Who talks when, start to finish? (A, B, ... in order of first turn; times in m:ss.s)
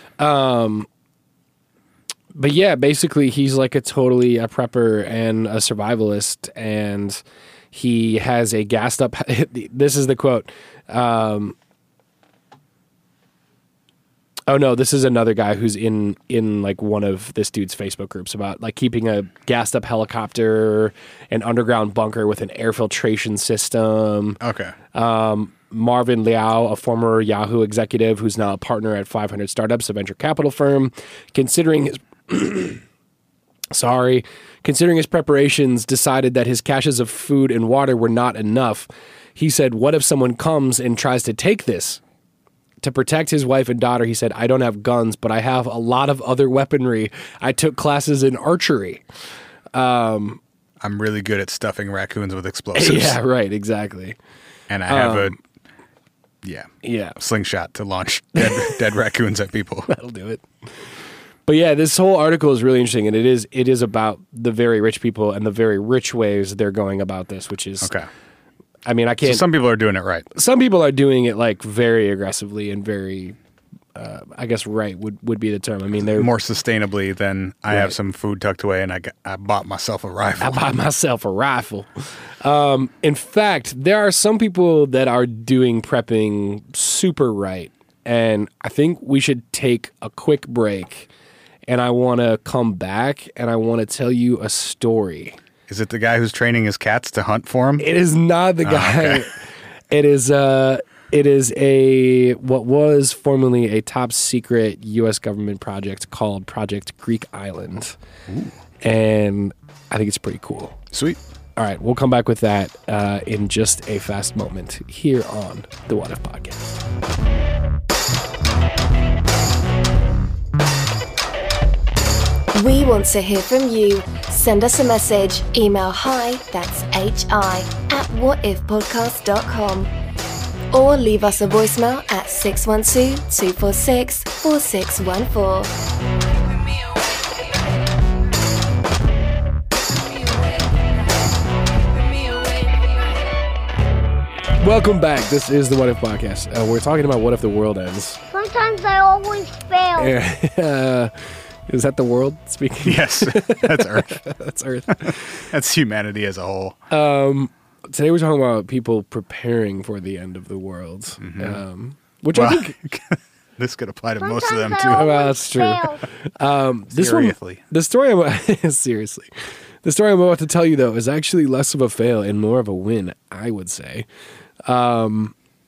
0:00.2-0:00.9 A
0:02.3-0:07.2 A
0:07.7-0:11.6 A
0:14.5-0:24.4 A
0:24.4-0:24.8 B
0:24.9-0:32.8 A
0:33.7-0:42.0 A
0:42.8-0:49.0 A
0:49.7-0:50.4 A
0:50.8-0:53.2 B
0:52.8-0:54.2 A
0:54.7-0:55.4 B
0:54.9-0:55.4 A
0:56.4-0:59.9 B
0:56.8-0:57.2 A
0:58.4-0:58.8 A
0:59.9-1:00.4 A
1:01.5-1:07.9 A
1:07.8-1:08.1 B
1:08.9-1:09.5 A
1:09.2-1:10.3 B
1:10.3-1:13.4 A
1:14.0-1:16.3 A
1:16.1-1:20.6 B
1:20.4-1:21.9 A
1:22.4-1:31.1 A
1:31.7-1:35.4 A
1:35.7-1:37.9 B
1:37.8-1:39.4 A
1:38.6-1:39.3 B
1:39.9-1:48.0 A
1:48.3-1:48.5 B
1:48.8-1:50.8 A
1:50.9-1:51.2 B
1:51.6-1:56.8 A
2:02.6-2:09.9 C
2:10.7-2:15.7 C
2:24.6-2:28.2 A
2:28.3-2:30.2 D
2:30.0-2:31.1 A
2:31.7-2:35.4 A
2:32.8-2:34.2 B
2:35.0-2:36.8 B
2:36.9-2:42.8 A
2:41.2-2:41.6 B
2:42.3-2:45.2 B
2:44.2-2:46.0 D
2:44.9-2:49.3 A
2:46.9-2:47.6 B
2:49.8-2:54.1 A
2:54.7-2:55.3 A